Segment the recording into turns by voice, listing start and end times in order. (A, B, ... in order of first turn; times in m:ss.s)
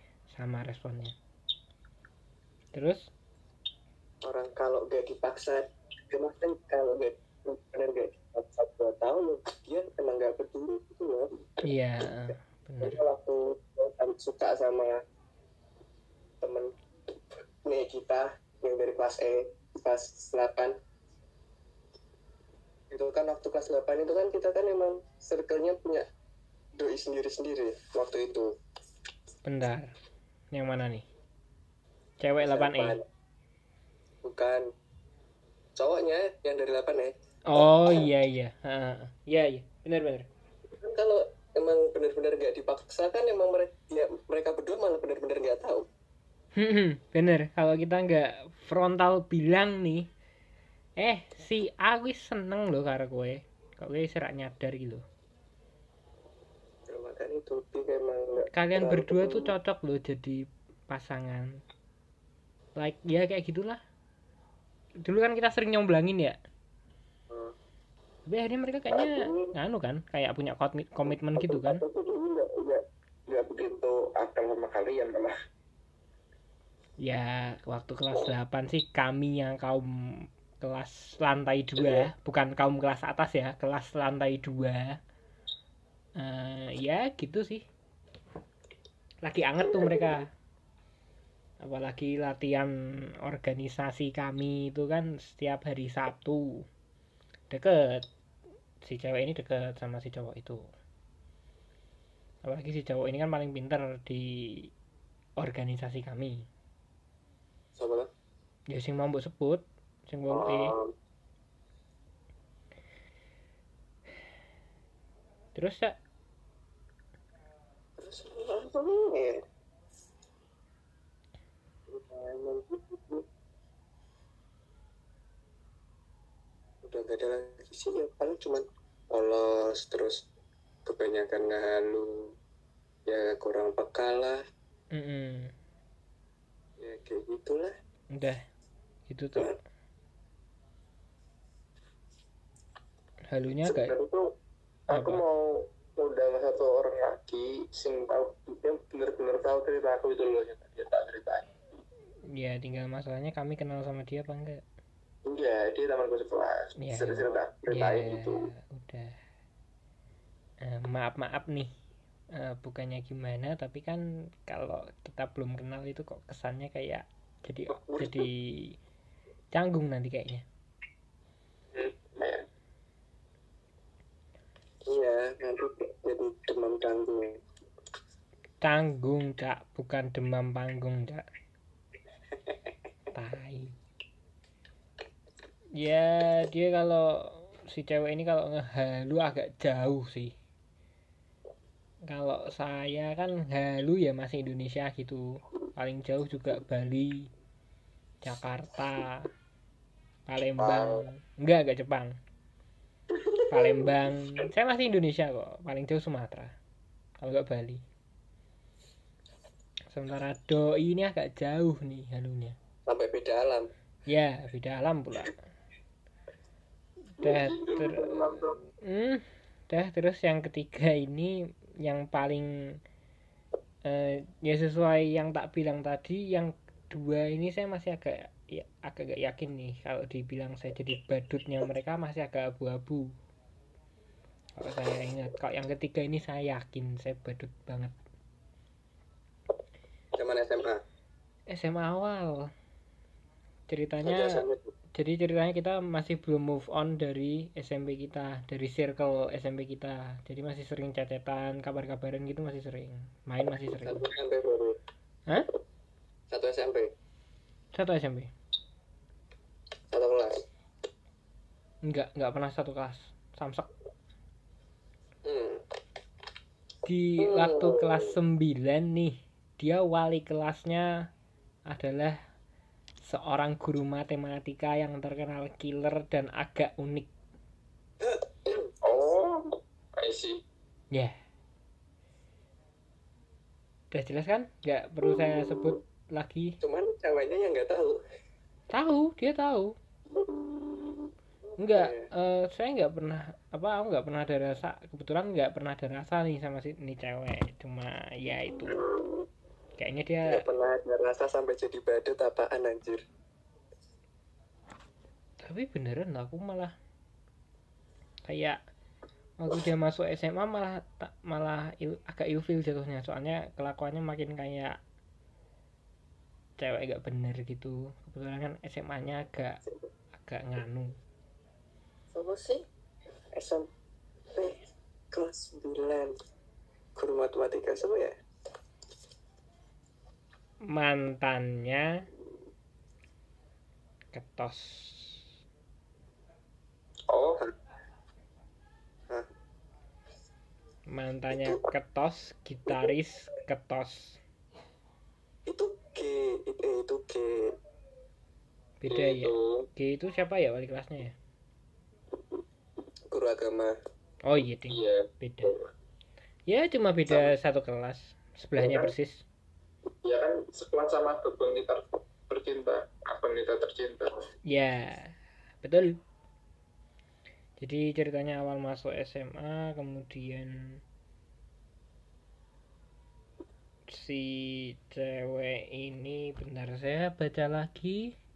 0:00.3-0:01.2 A
0:02.7-0:03.1 A
0:04.2-0:11.3 B
0:11.6-0:13.0 A
0:12.8-0:15.0 B
0:16.4-0:16.7 B
0:17.6-0:20.8 B
0:22.9-0:26.1 B
0:26.8-0:28.5 B
0:29.4-0:29.9 A
0:30.5-0:31.1 A
0:32.2-0:33.0 A
0:32.4-0:33.1 B
0:34.2-0:34.7 B
0:35.8-0:37.2 B
0:37.5-0:40.3 A
0:40.8-0:45.9 B
0:46.6-0:50.1 A
0:51.0-0:55.0 A
0:56.9-0:59.5 B
0:58.4-1:01.6 A
1:02.8-1:03.8 A
1:05.0-1:06.4 A
1:08.3-1:11.8 A
1:11.4-1:15.3 C
1:17.0-1:25.0 A
1:26.2-1:27.6 A
1:29.2-1:30.3 A
1:31.6-1:36.6 A
1:37.5-1:38.1 A
1:38.8-1:40.7 A
1:42.4-1:44.7 A
1:45.4-1:46.5 A
1:47.8-1:48.1 B
1:48.7-1:50.8 A
1:50.3-1:50.9 B
1:55.6-1:56.0 A
1:58.0-1:59.4 B
2:01.9-2:03.2 B
2:06.8-2:10.3 B
2:10.8-2:12.3 B
2:13.1-2:14.4 B
2:14.9-2:15.5 A
2:16.8-2:17.7 B
2:18.1-2:18.4 A
2:19.1-2:19.6 A
2:23.3-2:24.0 A
2:23.6-2:24.2 C
2:24.9-2:31.5 C
2:24.9-2:25.2 A
2:32.3-2:34.6 A
2:35.3-2:38.5 C
2:36.8-2:39.2 A
2:40.6-2:41.7 A
2:42.3-2:48.8 A
2:49.5-2:50.4 A
2:51.8-2:52.4 C
2:54.9-2:57.4 B
2:58.6-3:01.2 A
3:03.1-3:03.7 A
3:05.8-3:10.3 A
3:12.1-3:17.3 A
3:18.2-3:19.2 A
3:20.3-3:22.2 A
3:23.3-3:23.8 C
3:23.5-3:26.5 A
3:27.2-3:27.8 A
3:29.9-3:32.6 A
3:32.9-3:33.7 B
3:34.1-3:35.3 A
3:37.2-3:42.8 A
3:37.2-3:38.6 C
3:43.9-3:53.1 A
3:54.6-3:57.9 A
4:00.2-4:00.8 B
4:01.5-4:02.5 A
4:03.7-4:04.4 A
4:04.0-4:04.7 B
4:05.0-4:14.1 A
4:13.8-4:14.8 B
4:16.3-4:16.9 B
4:17.7-4:18.3 A
4:19.9-4:20.4 B
4:21.8-4:23.7 A
4:25.2-4:25.6 B
4:26.8-4:31.1 A
4:27.2-4:28.1 B
4:31.7-4:32.2 A
4:33.0-4:37.1 A
4:38.8-4:40.4 C
4:43.9-4:46.6 A
4:46.6-4:48.0 B
4:48.7-4:49.8 A
4:51.6-4:58.8 A
4:51.7-4:52.1 B
4:59.8-5:00.4 A
5:00.3-5:03.0 B
5:05.4-5:06.7 A
5:08.3-5:08.6 A
5:09.4-5:14.8 A
5:16.6-5:19.6 A
5:20.2-5:20.9 A
5:22.1-5:22.6 B
5:23.3-5:23.7 B
5:24.3-5:26.2 B
5:27.0-5:28.2 B
5:30.7-5:32.0 A
5:34.1-5:35.2 A
5:37.1-5:37.4 C
5:40.9-5:44.2 A
5:45.5-5:47.6 B
5:48.8-5:51.2 A
5:48.9-5:49.7 C
5:53.1-5:53.8 B
5:54.2-5:55.5 A
5:54.7-5:55.7 C
5:56.5-5:59.2 A
5:58.6-5:58.9 C
6:00.0-6:04.2 C
6:04.5-6:06.0 A
6:07.6-6:10.8 A
6:13.9-6:18.1 A